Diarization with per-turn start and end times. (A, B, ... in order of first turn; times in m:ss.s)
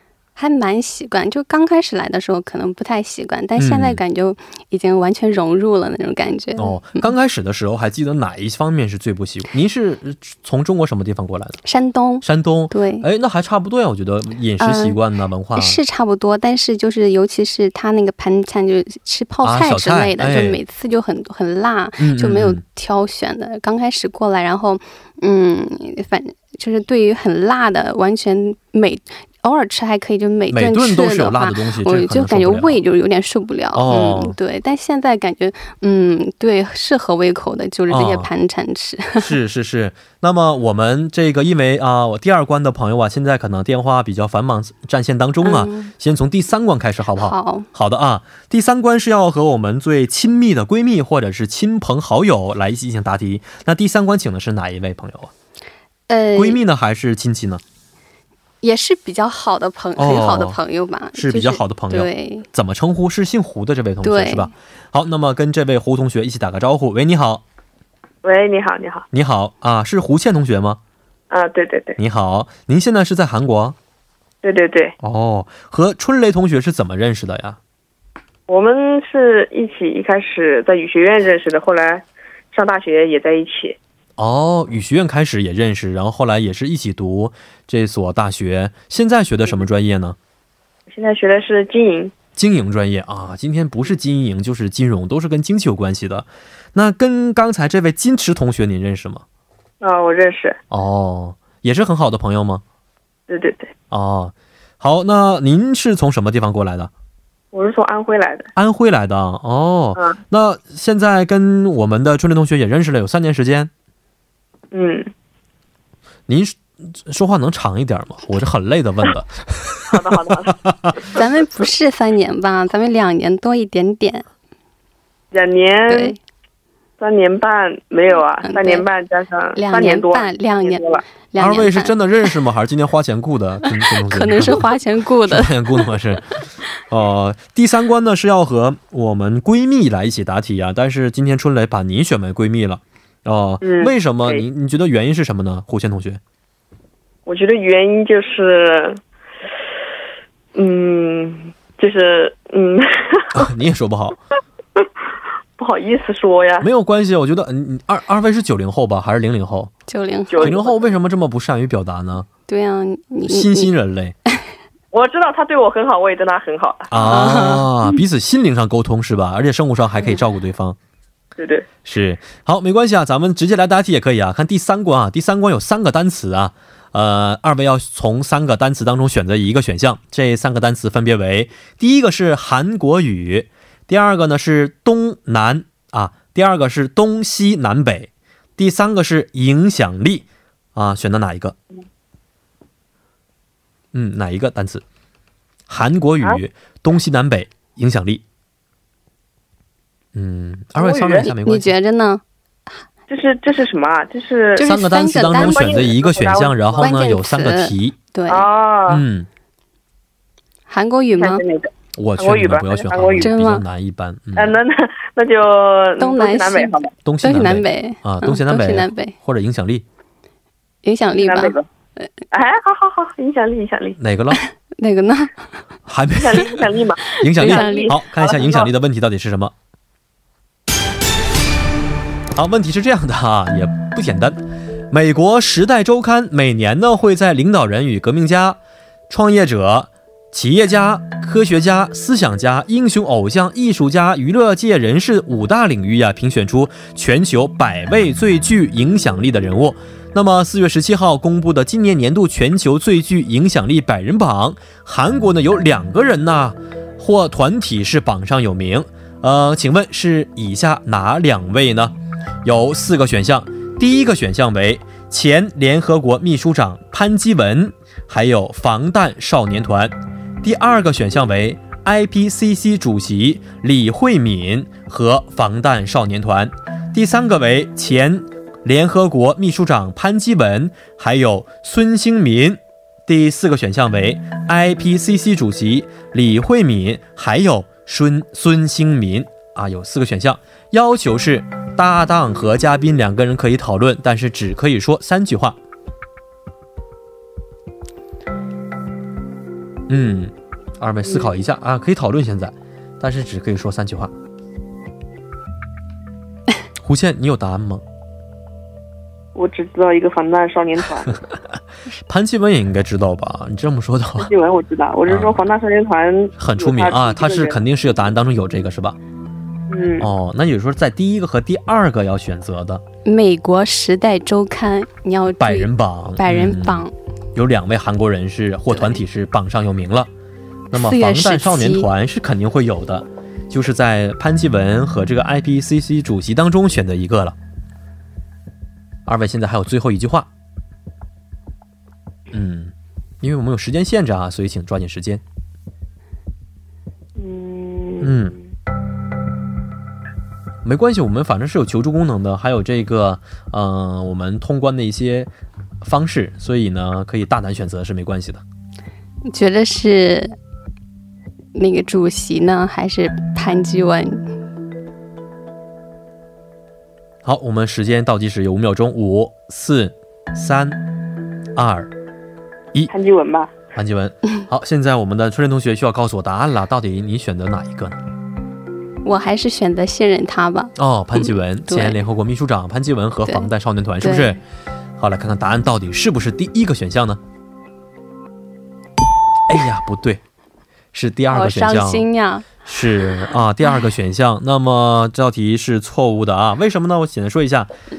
0:00.4-0:07.1 A
0:03.6-0:04.0 B
0:06.6-0:11.6 B
0:11.6-0:13.1 A
0:12.2-0:15.8 B
0:14.6-0:15.0 A
0:15.6-0:39.3 A
0:19.4-0:20.6 B
0:22.0-0:22.6 B
0:30.5-0:32.8 B
0:33.7-0:34.4 B
0:37.9-0:38.3 B
0:39.2-0:55.3 B
0:45.4-0:45.9 A
0:47.2-0:47.7 A
0:56.1-0:56.6 A
0:56.4-0:57.6 B
0:58.6-1:02.5 A
1:00.0-1:00.6 B
1:01.2-1:07.4 B
1:04.0-1:04.5 A
1:08.2-1:09.1 C
1:09.1-1:10.8 B
1:11.3-1:12.0 C
1:12.0-1:13.8 B
1:14.4-1:15.0 C
1:15.0-1:17.6 B
1:18.5-1:23.8 C
1:24.2-1:30.2 B
1:30.9-1:32.1 C
1:32.4-1:39.2 B
1:39.8-1:40.6 C
1:40.7-1:42.6 B
1:43.3-1:43.7 C
1:43.9-1:46.9 B
1:47.5-1:48.5 C
1:48.6-1:53.7 B
1:54.7-1:55.1 C
1:56.3-2:01.0 B
1:59.9-2:00.6 C
2:01.1-2:04.3 A
2:05.3-2:06.2 C
2:05.9-2:06.2 A
2:07.0-2:11.0 C
2:08.4-2:08.9 A
2:09.6-2:12.0 A
2:11.4-2:14.7 B
2:13.8-2:15.9 A
2:15.2-2:26.2 B
2:23.6-2:24.4 C
2:27.3-2:29.0 C
2:30.6-2:33.4 C
2:33.3-2:34.2 B
2:35.6-2:36.7 C
2:36.6-2:39.7 B
2:39.9-2:40.5 A
2:40.3-2:40.9 C
2:40.4-2:42.3 B
2:42.5-2:43.7 A
2:43.3-2:44.2 B
2:44.9-2:47.0 C
2:46.9-2:50.8 B
2:47.0-2:47.7 A
2:51.4-2:51.7 C
2:51.8-3:11.6 B
3:13.9-3:14.8 B
3:15.7-3:18.2 B
3:20.2-3:21.8 B
3:20.8-3:21.3 C
3:21.2-3:22.2 A
3:23.1-3:24.7 C
3:24.6-3:25.8 A
3:24.6-3:28.0 B
3:25.3-3:26.9 C
3:26.8-3:28.5 A
3:28.3-3:29.0 C
3:28.9-3:29.3 B
3:30.7-3:31.4 A
3:31.2-3:33.3 C
3:32.0-3:34.6 B
3:33.2-3:33.6 A
3:34.4-3:36.9 C
3:36.0-3:36.7 A
3:37.0-3:39.8 B
3:37.2-3:39.2 A
3:40.8-3:41.6 A
3:41.2-3:41.6 C
3:42.3-3:44.0 C
3:44.0-3:44.4 B
3:44.3-3:45.5 A
3:45.9-3:46.6 B
3:46.2-3:48.7 C
3:47.2-3:49.5 B
3:47.4-3:47.9 A
3:52.4-3:58.6 B
3:59.1-4:55.6 B
4:59.9-5:04.1 B
5:06.8-5:07.8 B
5:09.4-5:11.2 C
5:12.0-5:14.3 B
5:14.2-5:17.6 C
5:15.1-5:15.4 B
5:16.4-5:19.0 B
5:19.7-5:20.1 C
5:20.0-5:22.8 B
5:23.0-5:26.9 A
5:25.4-5:30.1 B
5:28.7-5:29.0 A
5:30.7-5:37.4 B
5:30.7-5:31.9 A
5:39.1-5:40.3 B
5:42.3-5:45.2 B
5:47.2-5:48.4 C
5:48.0-5:48.4 B
5:50.6-5:55.3 B
5:55.8-5:58.4 B
5:59.3-6:00.4 A
6:01.6-6:04.3 A
6:07.2-6:10.8 B
6:11.6-6:11.9 B
6:12.9-6:13.5 C
6:13.7-6:18.0 B
6:19.0-6:22.0 A
6:20.8-6:24.4 B
6:24.0-6:24.4 A
6:25.0-6:27.2 B
6:29.5-6:30.2 B
6:30.9-6:32.1 B
6:31.3-6:32.5 A
6:32.6-6:37.7 B